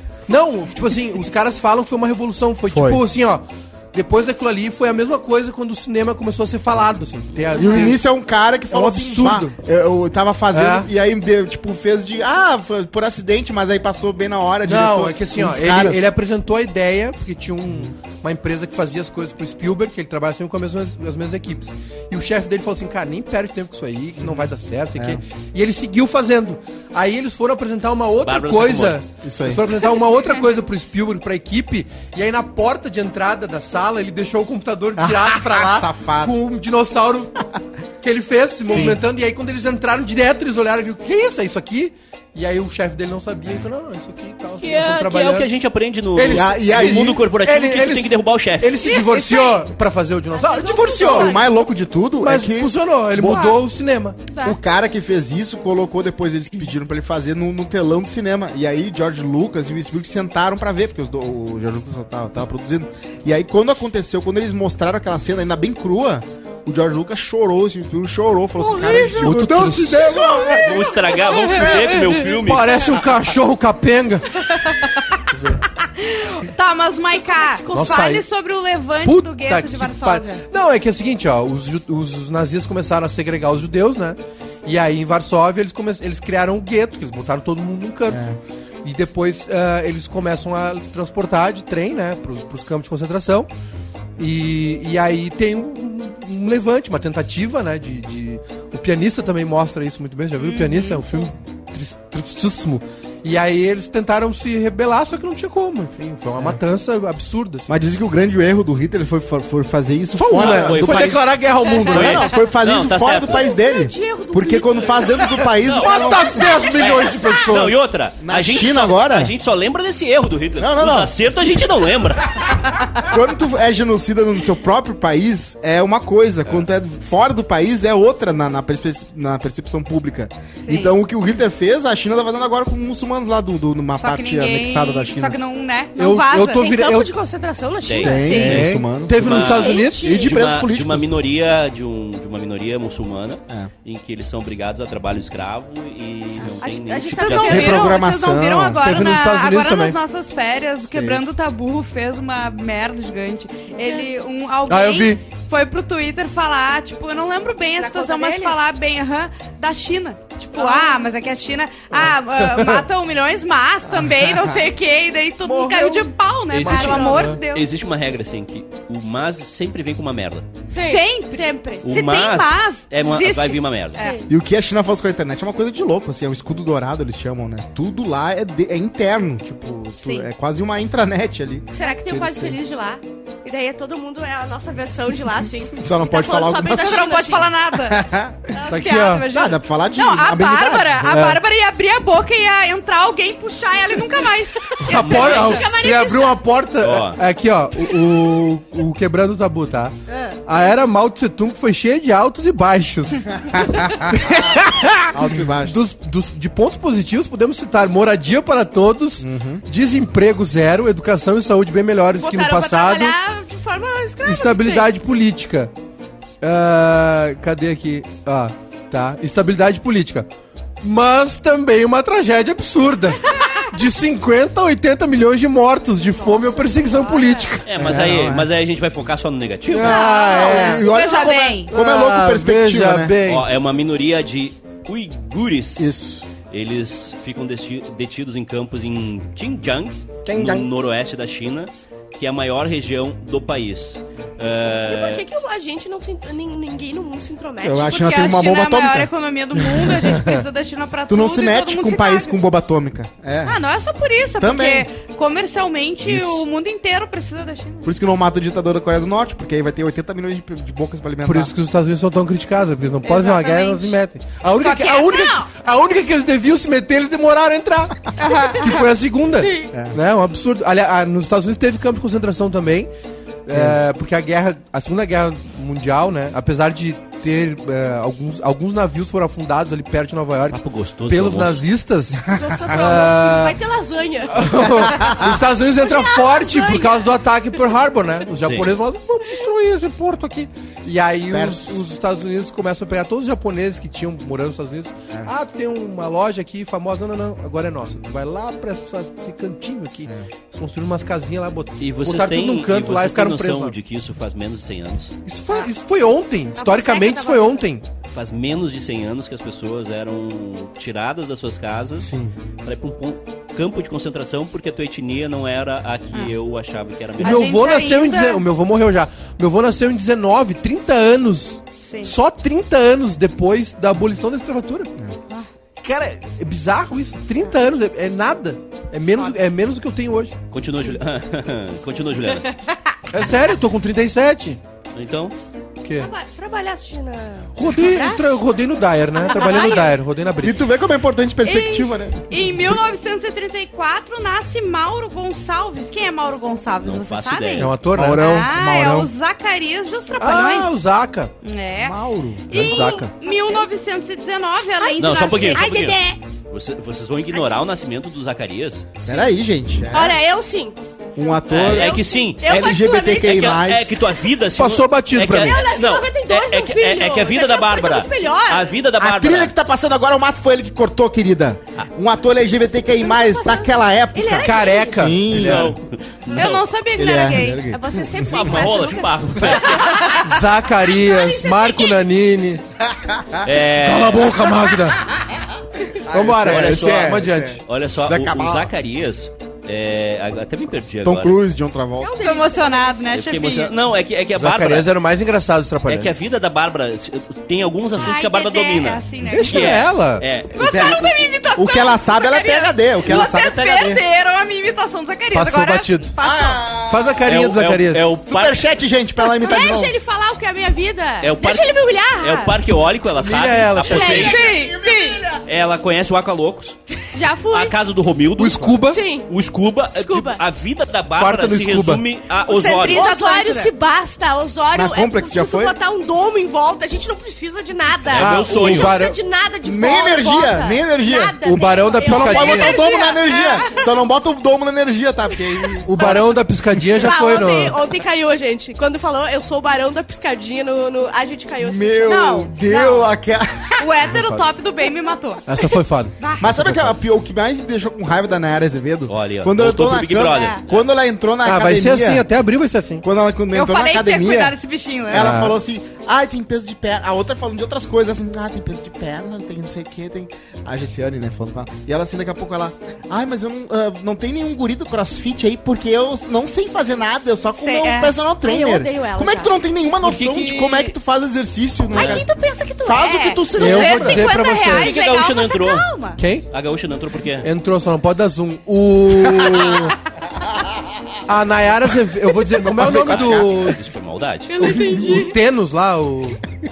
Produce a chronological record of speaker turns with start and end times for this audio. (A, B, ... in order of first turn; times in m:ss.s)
0:00.3-0:08.0 A
0:02.7-0:03.0 B
0:07.5-0:16.1 B
0:08.7-0:09.5 A
0:10.5-0:10.9 A
0:14.6-0:37.4 A
0:24.2-0:25.2 B
0:28.2-0:29.0 C
0:29.2-0:29.6 B
0:35.0-0:36.4 B
0:38.0-0:45.5 A
0:38.6-0:39.0 B
0:44.6-0:48.8 C
0:46.1-0:51.4 A
0:46.3-0:47.2 B
0:48.8-0:49.6 D
0:50.3-0:51.5 E
0:51.0-0:53.6 B
0:52.2-0:54.2 A
0:54.4-1:12.0 B
1:08.6-1:09.5 D
1:09.2-1:10.4 A
1:10.1-1:11.6 E
1:10.3-1:10.6 D
1:10.6-1:12.8 C
1:12.4-1:14.3 A
1:14.7-1:15.2 D
1:15.8-1:20.4 D
1:17.2-1:18.1 E
1:17.7-1:18.2 A
1:19.0-1:28.2 A
1:28.1-1:28.4 B
1:28.8-1:33.5 A
1:34.2-1:47.7 A
1:40.4-1:41.3 D
1:47.7-1:51.2 B
1:50.2-1:52.3 A
1:50.3-1:51.2 C
1:51.8-1:56.9 B
1:51.9-1:53.5 C
1:53.1-1:57.5 E
1:55.4-1:57.9 A
1:55.6-2:02.6 C
1:58.2-1:59.3 B
2:00.6-2:01.2 B
2:02.9-2:15.4 B
2:10.7-2:10.9 D
2:14.0-2:16.7 D
2:16.0-2:17.1 A
2:16.5-2:18.4 E
2:17.8-2:27.8 C
2:18.0-2:21.1 B
2:18.1-2:18.7 D
2:18.3-2:20.3 A
2:19.4-2:20.3 E
2:26.6-2:28.0 E
2:27.1-2:47.7 D
2:27.4-2:28.8 B
2:28.8-2:30.0 A
2:30.9-2:31.2 B
2:34.7-2:35.2 A
2:37.8-2:38.6 E
2:40.5-2:41.1 E
2:42.0-2:42.8 A
2:44.3-2:44.6 B
2:45.4-2:47.4 A
2:46.5-2:50.5 C
2:46.6-2:47.3 E
2:50.7-2:51.8 E
2:50.8-2:54.2 D
2:51.8-2:54.0 C
2:54.0-2:54.3 E
2:54.3-3:02.6 B
3:00.0-3:00.3 D
3:01.7-3:07.5 E
3:05.7-3:07.2 B
3:06.7-3:08.0 D
3:07.8-3:08.5 B
3:08.6-3:15.6 D
3:08.7-3:09.3 A
3:09.3-3:11.3 B
3:11.1-3:11.4 A
3:14.8-3:19.9 A
3:14.9-3:16.4 E
3:14.9-3:15.7 C
3:16.8-3:17.2 C
3:20.4-3:33.1 A
3:23.6-3:24.4 B
3:25.1-3:25.8 B
3:29.2-3:29.6 B
3:32.2-3:34.9 E
3:34.2-3:35.7 A
3:36.4-3:40.3 A
3:40.8-3:48.0 A
3:46.1-3:47.6 E
3:47.6-3:50.1 C
3:47.8-3:48.5 B
3:49.7-3:53.2 B
3:49.7-3:51.0 A
3:49.8-3:51.7 D
3:51.7-3:53.5 A
3:53.2-3:56.0 C
3:55.8-3:56.2 B
3:56.5-4:05.2 C
4:00.2-4:00.7 A
4:04.7-4:08.0 E
4:07.6-4:09.1 B
4:07.8-4:12.3 D
4:10.0-4:10.4 A
4:11.1-4:13.6 B
4:13.4-4:17.9 D
4:14.4-4:14.9 B
4:16.0-4:16.4 B
4:17.8-4:21.5 B
4:21.2-4:32.9 A
4:23.0-4:24.0 D
4:24.6-4:25.5 D
4:28.2-4:28.9 D
4:29.7-4:30.0 B
4:33.4-4:43.6 A
4:33.5-4:33.8 B
4:40.5-4:41.6 C
4:42.3-4:45.2 E
4:42.5-4:43.0 B
4:44.3-5:03.7 A
4:45.0-4:45.3 B
4:45.8-4:47.1 E
4:48.4-4:48.7 C
4:51.3-4:51.8 B
5:01.8-5:05.1 C
5:05.2-5:07.8 A
5:06.5-5:07.7 E
5:08.1-5:12.1 C
5:12.0-5:12.3 B
5:12.6-5:17.5 C
5:17.2-5:24.9 A
5:17.2-5:18.4 D
5:21.8-5:22.1 D
5:25.8-5:30.3 A
5:30.5-5:32.5 C
5:33.1-5:34.6 A
5:34.9-5:35.3 C
5:35.8-5:36.1 A
5:36.0-5:38.4 E
5:37.6-5:40.6 A
5:39.2-5:40.0 E
5:39.3-5:39.8 D
5:40.4-5:42.7 B
5:41.4-5:50.8 D
5:46.8-5:47.7 C
5:47.6-5:48.4 A
5:47.9-5:49.1 B
5:50.2-5:51.3 A
5:51.4-5:52.0 D
5:51.8-5:52.5 B
5:52.5-5:55.9 D
5:52.5-5:53.1 A
5:52.5-5:53.7 E
5:54.8-5:56.2 E
5:55.0-5:56.0 C
5:56.5-5:59.1 C
5:59.0-6:00.2 B
5:59.9-6:00.8 E
6:01.2-6:04.0 B
6:01.5-6:09.5 C
6:01.6-6:03.6 E
6:04.6-6:05.6 A
6:05.3-6:08.7 E
6:09.0-6:15.7 B
6:12.9-6:15.1 E
6:14.4-6:15.8 A
6:15.2-6:16.7 C
6:16.3-6:17.7 D
6:16.9-6:18.6 B
6:17.7-6:20.3 E
6:18.3-6:20.0 C
6:20.2-6:22.6 A
6:20.8-6:22.0 E
6:22.8-6:23.5 B
6:23.4-6:24.5 C
6:23.7-6:25.0 A
6:26.0-6:28.7 B
6:26.1-6:27.6 A
6:26.4-6:31.4 C
6:31.0-6:32.1 B
6:32.0-6:33.1 E
6:32.2-6:33.7 D
6:33.1-6:34.9 C
6:34.3-6:36.1 A
6:35.8-6:41.0 C
6:38.0-6:39.8 D
6:39.2-6:40.2 A
6:40.5-6:46.8 D
6:40.6-6:44.0 B
6:45.3-6:46.1 A
6:46.2-6:47.3 B
6:46.8-6:48.1 A
6:47.2-6:48.6 C
6:48.2-6:50.0 B
6:49.2-6:52.6 E
6:51.2-6:54.5 C
6:53.2-6:54.4 A
6:53.8-6:54.6 E
6:53.9-6:55.4 B
6:54.0-6:55.2 D
6:55.4-6:56.8 C
6:57.1-6:57.7 E
6:57.5-7:03.1 C
6:58.4-6:59.0 A
6:58.8-6:59.3 E
6:59.9-7:00.4 E
7:01.2-7:02.0 A
7:02.4-7:03.7 D
7:02.9-7:13.8 E
7:04.7-7:05.8 B
7:08.1-7:09.0 C
7:08.1-7:09.2 A
7:09.6-7:16.3 B
7:11.4-7:12.8 A
7:13.3-7:13.7 D
7:15.8-7:17.8 A
7:16.9-7:22.3 E
7:21.6-7:23.9 B
7:22.0-7:23.1 D
7:23.8-7:25.7 D
7:24.0-7:24.5 A
7:25.5-7:27.0 A
7:26.2-7:26.4 D
7:26.4-7:32.3 B
7:29.1-7:30.8 C
7:30.2-7:30.6 D
7:31.4-7:33.0 A
7:33.0-7:54.4 B
7:33.5-7:35.4 D
7:35.1-7:35.6 A
7:47.6-7:48.1 D
7:48.4-7:49.6 E
7:50.0-7:51.0 C
7:51.9-7:56.2 D
7:51.9-7:52.2 C
7:53.5-7:55.0 A
7:54.6-7:57.5 C
7:56.2-7:56.5 A
7:57.4-8:00.0 A
7:59.3-7:59.8 B
8:01.2-8:03.8 A
8:02.4-8:03.8 B
8:02.9-8:04.6 C
8:04.5-8:05.4 E
8:04.6-8:06.4 A
8:04.6-8:05.2 B